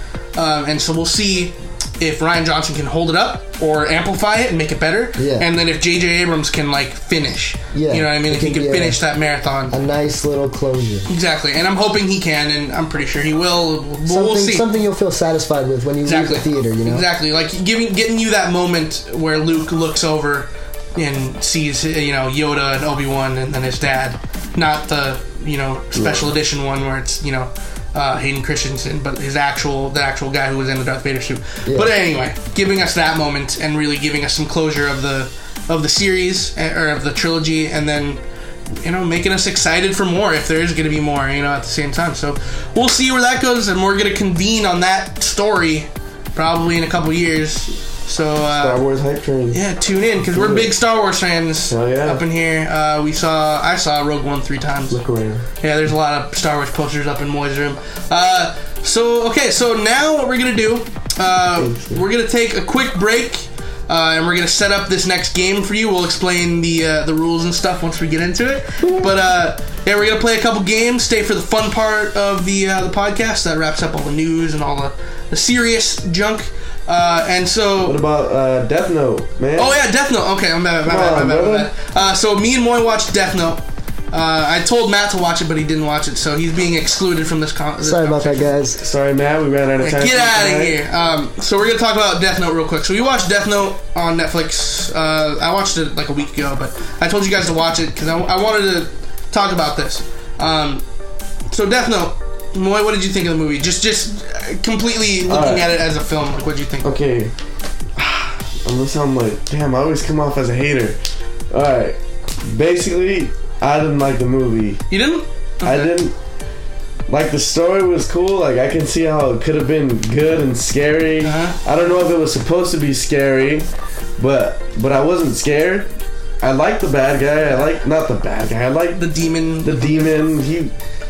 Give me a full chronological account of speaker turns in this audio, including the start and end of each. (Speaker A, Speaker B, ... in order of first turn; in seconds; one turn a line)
Speaker A: 0.3-9.7
Speaker B: 5.2-5.5
Speaker B: 7.7-9.0
Speaker B: 9.7-11.1
Speaker A: 11.1-14.6
Speaker B: 14.1-17.0
Speaker A: 16.0-38.2
Speaker C: 25.9-26.3
Speaker A: 38.8-48.8
Speaker C: 48.5-49.6
Speaker A: 49.5-55.0
Speaker C: 50.3-50.7
Speaker C: 51.7-52.2
Speaker C: 54.9-55.4
Speaker A: 55.6-78.0
Speaker C: 61.6-62.0
Speaker C: 68.8-69.1
Speaker C: 77.8-79.8
Speaker A: 79.5-88.5
Speaker C: 80.8-81.7
Speaker B: 87.8-88.8
Speaker C: 88.8-90.8
Speaker A: 89.8-100.8
Speaker A: 101.5-106.9
Speaker C: 105.3-105.7
Speaker C: 106.8-107.3
Speaker C: 108.0-111.0
Speaker C: 111.5-114.8
Speaker A: 114.9-116.0
Speaker C: 115.6-116.1
Speaker C: 117.1-123.7
Speaker A: 121.2-121.6
Speaker C: 124.2-125.9
Speaker C: 126.4-129.1
Speaker A: 127.4-127.7
Speaker A: 129.0-130.2
Speaker C: 129.6-130.7